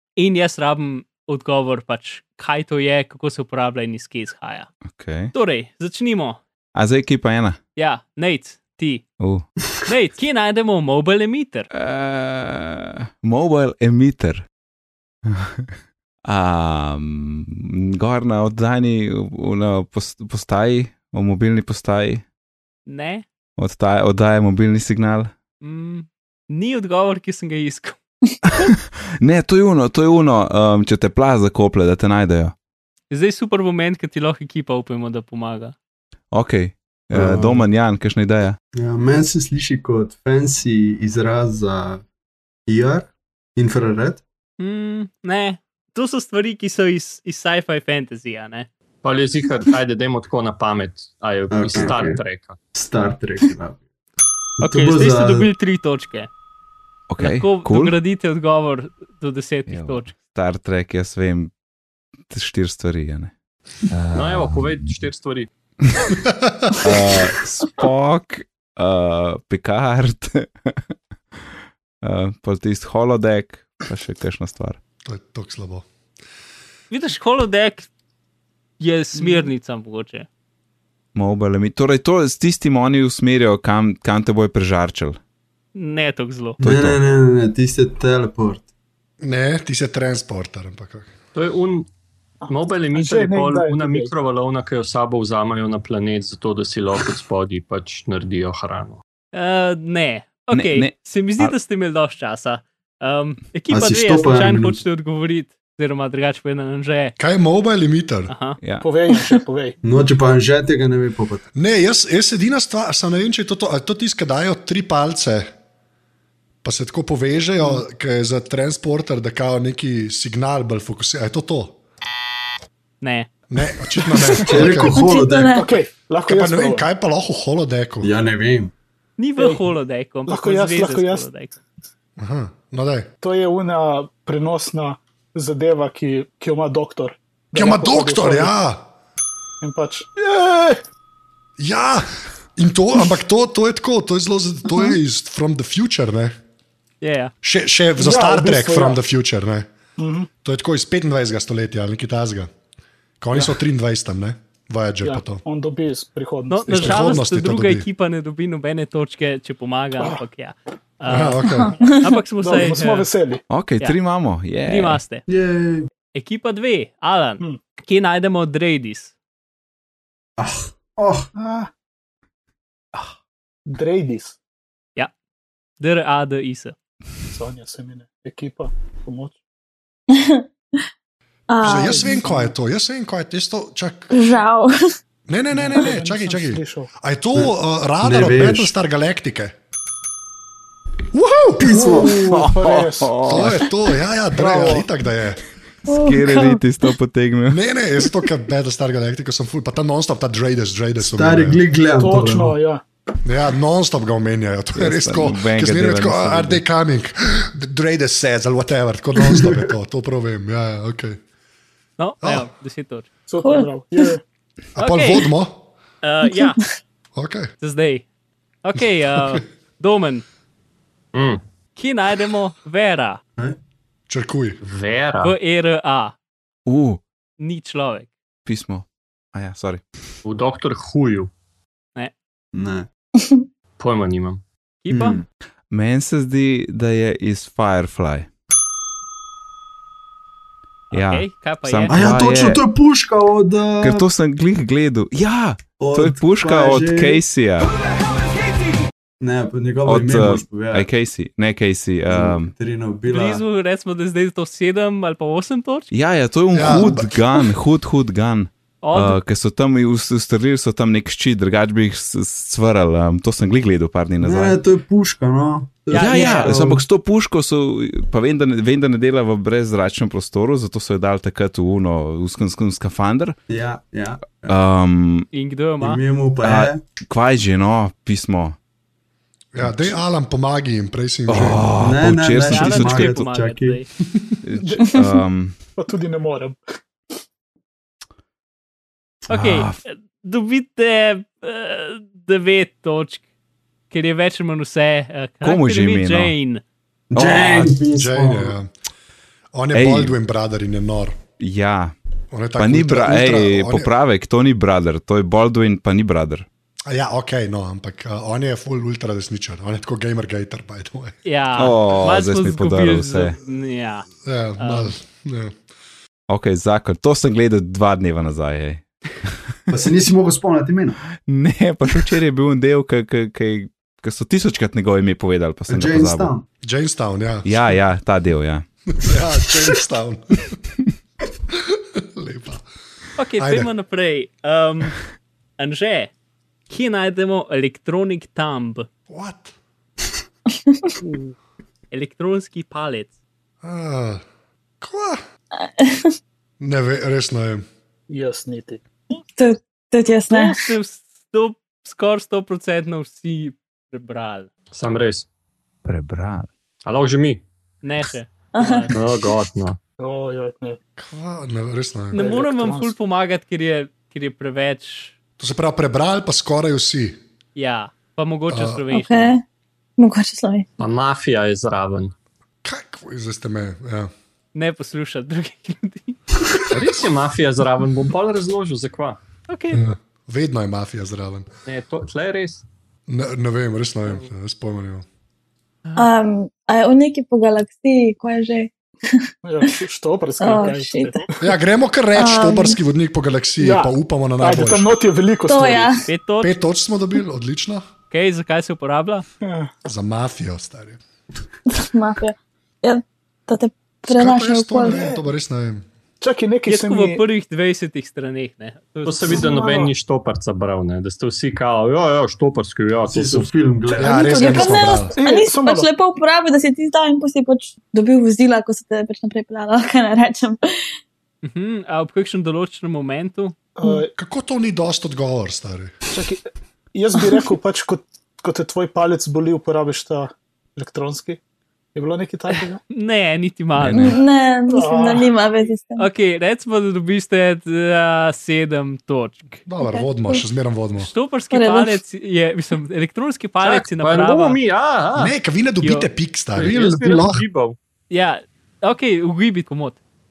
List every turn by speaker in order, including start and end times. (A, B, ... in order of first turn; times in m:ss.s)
0:00.2-0:04.7 A
0:04.9-0:05.3 B
0:05.3-0:06.4 A
0:06.7-0:07.6 B
0:07.8-0:09.0 A
0:09.2-0:09.4 B
0:09.8-0:11.7 A
0:11.7-0:14.4 B
0:15.2-0:15.7 B
0:16.3-0:22.2 B
0:22.8-0:23.2 A
0:23.6-0:25.3 B
0:25.6-0:28.0 A
0:28.5-0:32.5 B
0:33.1-0:35.7 A
0:36.3-0:38.6 B
0:37.1-0:37.6 C
0:38.7-0:42.0 C
0:42.7-0:44.2 C
0:44.6-0:48.7 A
0:49.0-0:52.6 D
0:51.5-0:52.2 C
0:52.7-0:53.8 C
0:54.6-0:55.5 C
0:54.6-0:56.3 A
0:57.1-0:58.0 B
0:57.2-1:00.1 A
0:59.7-1:01.5 B
1:02.3-1:03.3 B
1:03.9-1:04.9 B
1:04.1-1:05.5 D
1:06.2-1:06.8 E
1:06.8-1:10.8 B
1:12.0-1:14.8 B
1:15.0-1:15.8 E
1:16.9-1:17.9 A
1:18.8-1:20.3 A
1:19.2-1:19.5 F
1:21.1-1:25.2 B
1:25.7-1:26.6 A
1:26.6-1:27.0 B
1:26.6-1:28.6 C
1:29.2-1:31.1 E
1:31.3-1:31.9 D
1:32.4-1:34.1 F
1:32.5-1:39.0 D
1:39.3-1:47.1 A
1:40.5-1:41.5 B
1:43.7-1:44.8 C
1:47.2-1:48.3 E
1:48.3-1:48.6 A
1:48.6-1:48.9 B
1:48.8-1:49.8 F
1:49.8-1:51.4 C
1:51.6-1:55.5 E
1:56.6-2:01.8 E
2:03.0-2:03.3 A
2:03.5-2:05.0 E
2:04.4-2:05.6 C
2:04.7-2:05.7 G
2:05.5-2:06.9 F
2:06.2-2:08.1 E
2:08.0-2:08.7 C
2:09.2-2:11.6 A
2:09.4-2:09.7 F
2:10.3-2:11.3 F
2:12.2-2:13.1 E
2:13.2-2:18.6 F
2:17.5-2:18.9 E
2:19.6-2:20.8 F
2:21.6-2:26.3 E
2:27.0-2:27.3 A
2:27.4-2:29.7 E
2:28.0-2:29.0 F
2:30.0-2:30.3 F
2:30.4-2:32.5 E
2:33.2-2:35.4 E
2:33.3-2:33.6 F
2:35.0-2:37.2 F
2:36.5-2:43.1 A
2:36.7-2:37.8 E
2:41.1-2:41.7 E
2:41.4-2:42.1 G
2:42.4-2:43.4 F
2:43.5-2:45.0 B
2:44.6-2:45.2 A
2:45.3-2:45.9 C
2:46.1-2:49.1 A
2:50.4-2:51.3 C
2:51.3-2:51.7 F
2:53.7-2:54.4 F
2:55.8-2:56.7 A
2:57.3-2:59.4 F
3:00.1-3:00.5 G
3:01.5-3:02.2 G
3:01.6-3:04.1 E
3:01.6-3:02.5 F
3:04.1-3:04.7 G
3:05.3-3:09.5 E
3:05.5-3:06.9 F
3:08.0-3:08.7 C
3:11.1-3:11.7 E
3:11.6-3:12.2 C
3:11.6-3:13.2 F
3:12.2-3:13.7 B
3:13.2-3:15.4 E
3:14.3-3:14.9 F
3:15.9-3:16.6 G
3:15.9-3:17.6 B
3:17.5-3:21.6 E
3:21.0-3:22.6 C
3:21.9-3:22.8 F
3:23.2-3:31.2 E
3:24.7-3:26.6 B
3:32.0-3:33.1 A
3:32.2-3:32.5 E
3:33.3-3:34.2 F
3:33.4-3:34.1 G
3:34.8-3:35.6 E
3:34.8-3:35.3 A
3:36.0-3:36.6 A
3:37.1-3:37.5 E
3:37.6-3:38.0 A
3:38.6-3:40.2 A
3:39.1-3:39.4 E
3:41.1-3:41.4 D
3:41.8-3:43.2 A
3:44.1-3:44.6 E
3:44.6-3:45.3 D
3:45.2-3:46.1 A
3:46.6-3:47.0 B
3:47.4-3:48.1 A
3:48.4-3:49.8 B
3:50.2-3:51.3 D
3:52.5-3:52.9 C
3:53.2-3:53.4 G
3:53.8-3:54.4 D
3:54.8-3:55.2 A
3:54.9-3:55.2 C
3:55.7-3:58.3 B
4:00.9-4:02.0 A
4:00.9-4:02.6 B
4:01.9-4:04.0 C
4:03.8-4:07.7 B
4:05.8-4:07.2 C
4:09.2-4:10.9 C
4:09.8-4:12.5 B
4:12.1-4:13.4 C
4:13.1-4:15.9 A
4:15.9-4:24.6 B
4:16.5-4:17.1 E
4:18.8-4:19.2 A
4:24.2-4:26.8 C
4:25.9-4:26.6 A
4:25.9-4:33.4 B
4:33.5-4:34.5 C
4:34.5-4:35.3 B
4:35.3-4:36.0 A
4:35.8-4:36.8 C
4:36.4-4:38.6 B
4:39.5-4:41.6 E
4:41.3-4:43.3 B
4:41.8-4:43.8 C
4:42.5-4:43.9 A
4:44.4-4:45.6 B
4:44.6-4:45.0 F
4:45.8-4:46.6 F
4:49.3-4:49.8 B
4:49.3-4:53.2 A
4:53.9-4:56.6 A
4:55.4-4:56.3 B
4:57.1-4:58.5 C
4:57.9-4:58.7 E
4:59.5-5:01.2 E
4:59.7-5:00.1 B
5:01.4-5:01.9 B
5:02.3-5:03.9 E
5:02.6-5:06.4 B
5:06.9-5:11.2 E
5:11.2-5:14.1 A
5:11.5-5:13.4 B
5:14.2-5:15.6 E
5:14.6-5:14.9 A
5:16.3-5:19.3 B
5:19.7-5:21.0 C
5:21.2-5:26.3 B
5:25.7-5:26.5 C
5:26.6-5:27.7 E
5:27.4-5:28.6 B
5:29.0-5:30.6 E
5:31.5-5:32.6 E
5:33.2-5:35.0 A
5:33.4-5:33.7 E
5:35.6-5:36.1 A
5:36.7-5:38.9 A
5:39.1-5:39.5 E
5:41.0-5:41.3 F
5:41.9-5:43.1 A
5:43.6-5:44.2 E
5:44.8-5:45.2 E
5:45.6-5:46.1 G
5:46.6-5:47.6 E
5:48.1-5:48.8 F
5:49.3-5:50.7 G
5:50.3-5:54.5 A
5:54.7-5:55.2 D
5:55.8-5:56.5 B
5:56.8-5:57.4 D
5:57.8-5:58.9 A
5:58.5-5:58.9 G
5:58.9-5:59.8 D
6:00.0-6:00.8 F
6:01.0-6:02.3 E
6:02.1-6:05.1 A
6:02.1-6:02.9 F
6:05.4-6:07.2 E
6:07.6-6:09.3 A
6:08.5-6:08.8 E
6:08.9-6:09.4 G
6:10.0-6:10.7 G
6:10.8-6:12.1 D
6:12.6-6:14.1 E
6:14.5-6:16.2 A
6:16.6-6:19.2 D
6:19.5-6:19.8 A
6:19.7-6:21.5 E
6:21.6-6:22.6 D
6:23.1-6:25.0 E
6:26.0-6:29.1 G
6:29.4-6:31.4 F
6:30.4-6:31.2 G
6:31.4-6:35.0 E
6:32.1-6:32.8 G
6:33.6-6:36.0 F
6:35.5-6:36.1 G
6:36.0-6:36.5 A
6:36.4-6:37.9 E
6:38.1-6:39.2 A
6:39.4-6:39.7 F
6:39.8-6:41.0 E
6:41.7-6:45.0 G
6:44.1-6:45.8 E
6:44.9-6:45.2 F
6:46.2-6:47.2 F
6:46.7-6:49.4 A
6:49.0-6:53.5 D
6:49.4-6:49.8 G
6:53.1-6:54.5 C
6:53.9-7:00.9 G
6:54.0-6:55.1 E
6:54.4-6:55.9 F
7:01.4-7:03.6 A
7:03.8-7:04.1 F
7:04.2-7:06.0 E
7:06.1-7:11.4 F
7:11.9-7:12.8 F
7:12.9-7:14.2 A
7:13.8-7:14.2 B
7:14.0-7:16.1 G
7:14.7-7:15.4 F
7:16.0-7:19.6 A
7:19.6-7:21.1 E
7:19.8-7:20.4 G
7:21.0-7:24.6 A
7:21.5-7:22.0 G
7:23.6-7:25.3 D
7:25.1-7:27.4 E
7:25.8-7:26.1 A
7:26.5-7:27.8 D
7:28.1-7:30.0 A